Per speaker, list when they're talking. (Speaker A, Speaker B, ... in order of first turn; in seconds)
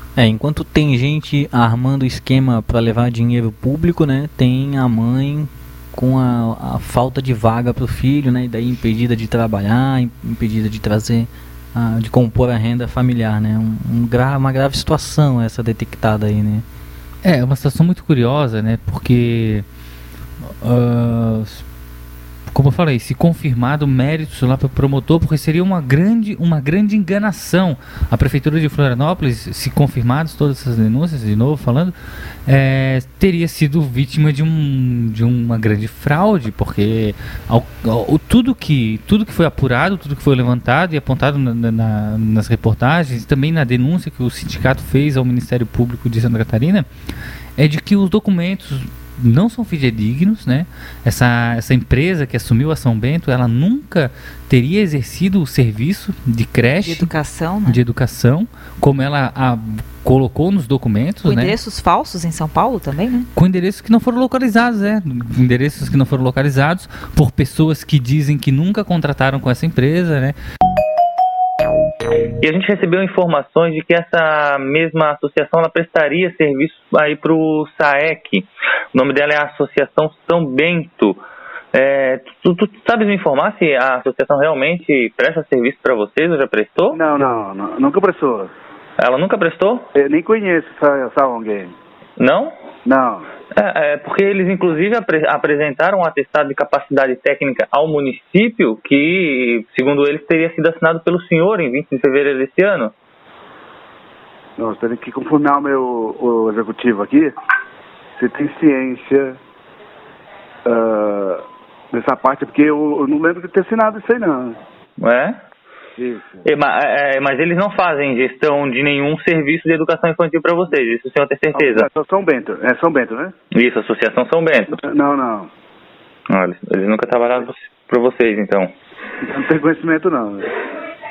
Speaker A: 0.2-16.6
Speaker B: 17.2-19.6, 20.6-21.6, 22.5-31.9, 32.5-46.9, 47.6-57.1, 57.7-61.6, 63.4-70.4
Speaker C: 56.8-57.8, 61.2-63.3
Speaker D: 72.4-81.2, 81.7-87.0, 89.0-89.8, 92.2-92.5, 93.6-102.9, 115.0-115.4, 116.5-121.9, 123.5-124.8, 126.3-128.7
Speaker E: 86.9-88.5, 90.0-91.7, 92.9-93.3, 104.6-107.3, 108.2-109.4, 110.7-114.6, 116.0-116.5, 121.5-123.3, 124.7-125.5, 129.2-130.5